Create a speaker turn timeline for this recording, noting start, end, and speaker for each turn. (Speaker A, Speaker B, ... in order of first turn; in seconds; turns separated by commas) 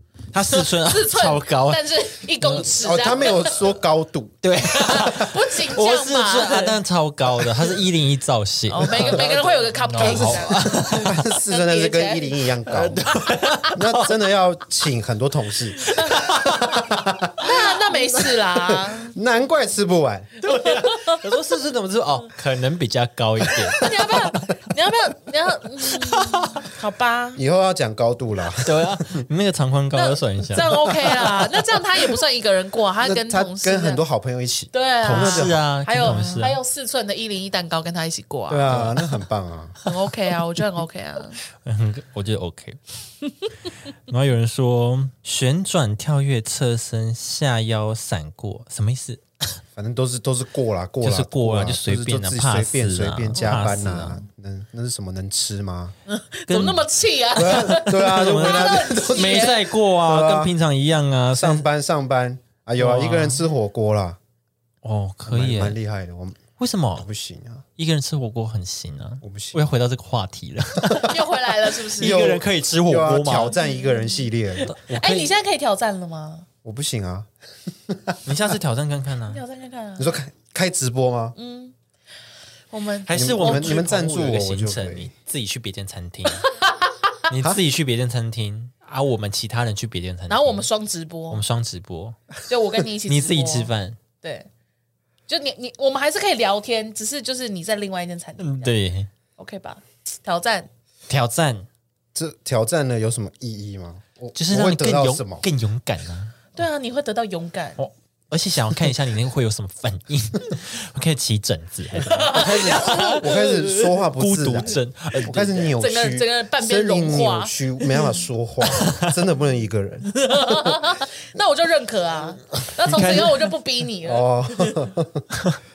Speaker A: 0.3-2.7, Speaker B: 0.6-3.6, Speaker C: 2.7-4.4, Speaker A: 4.4-9.3, Speaker B: 4.7-6.8, Speaker B: 8.7-12.4, Speaker C: 9.0-13.1, Speaker A: 9.8-11.2, Speaker A: 12.7-14.2, Speaker B: 13.4-13.7, Speaker C: 13.7-20.3, Speaker B: 15.8-16.3, Speaker A: 15.9-16.8, Speaker B: 17.4-19.2, Speaker A: 20.4-24.3, Speaker B: 20.5-21.2, Speaker B: 23.8-27.4, Speaker A: 26.0-26.7, Speaker C: 27.4-29.2, Speaker A: 28.6-30.9, Speaker B: 29.9-34.0, Speaker C: 30.9-31.4, Speaker C: 33.0-36.2, Speaker B: 34.7-38.9, Speaker A: 35.0-36.6, Speaker C: 38.5-39.8, Speaker A: 38.7-39.2, Speaker B: 39.8-41.4, Speaker A: 41.5-42.8, Speaker A: 43.9-49.2, Speaker C: 49.8-55.9, Speaker A: 51.0-54.2, Speaker B: 53.4-53.6, Speaker B: 56.1-59.6, Speaker A: 56.5-61.6, Speaker C: 57.4-60.5, Speaker C: 61.3-64.2, Speaker A: 62.8-63.4, Speaker A: 64.8-65.8, Speaker C: 65.3-66.5, Speaker A: 66.6-67.1, Speaker C: 67.0-67.7, Speaker A: 67.8-73.6, Speaker C: 69.2-69.6, Speaker B: 71.0-72.3, Speaker C: 72.0-74.8, Speaker B: 73.6-74.3, Speaker A: 74.6-75.3, Speaker B: 74.8-76.5, Speaker C: 76.6-77.3, Speaker C: 77.9-78.2, Speaker A: 78.2-79.4, Speaker B: 79.3-80.1, Speaker C: 80.0-81.3, Speaker B: 81.3-81.7, Speaker B: 82.7-83.8, Speaker A: 83.1-86.5, Speaker C: 83.1-85.1, Speaker B: 86.4-86.7, Speaker A: 87.3-90.7, Speaker B: 90.3-91.4, Speaker A: 91.3-92.2, Speaker B: 92.5-94.5, Speaker A: 93.0-94.0, Speaker B: 95.3-98.8, Speaker A: 98.4-99.1, Speaker B: 99.4-100.7, Speaker A: 101.1-101.7, Speaker C: 102.2-105.4, Speaker A: 104.3-106.4, Speaker B: 106.5-107.9, Speaker A: 107.8-115.8, Speaker B: 112.0-113.3, Speaker C: 112.2-120.8, Speaker B: 115.7-118.2, Speaker A: 118.7-119.2, Speaker B: 120.1-124.9, Speaker A: 122.8-123.5, Speaker C: 124.0-125.3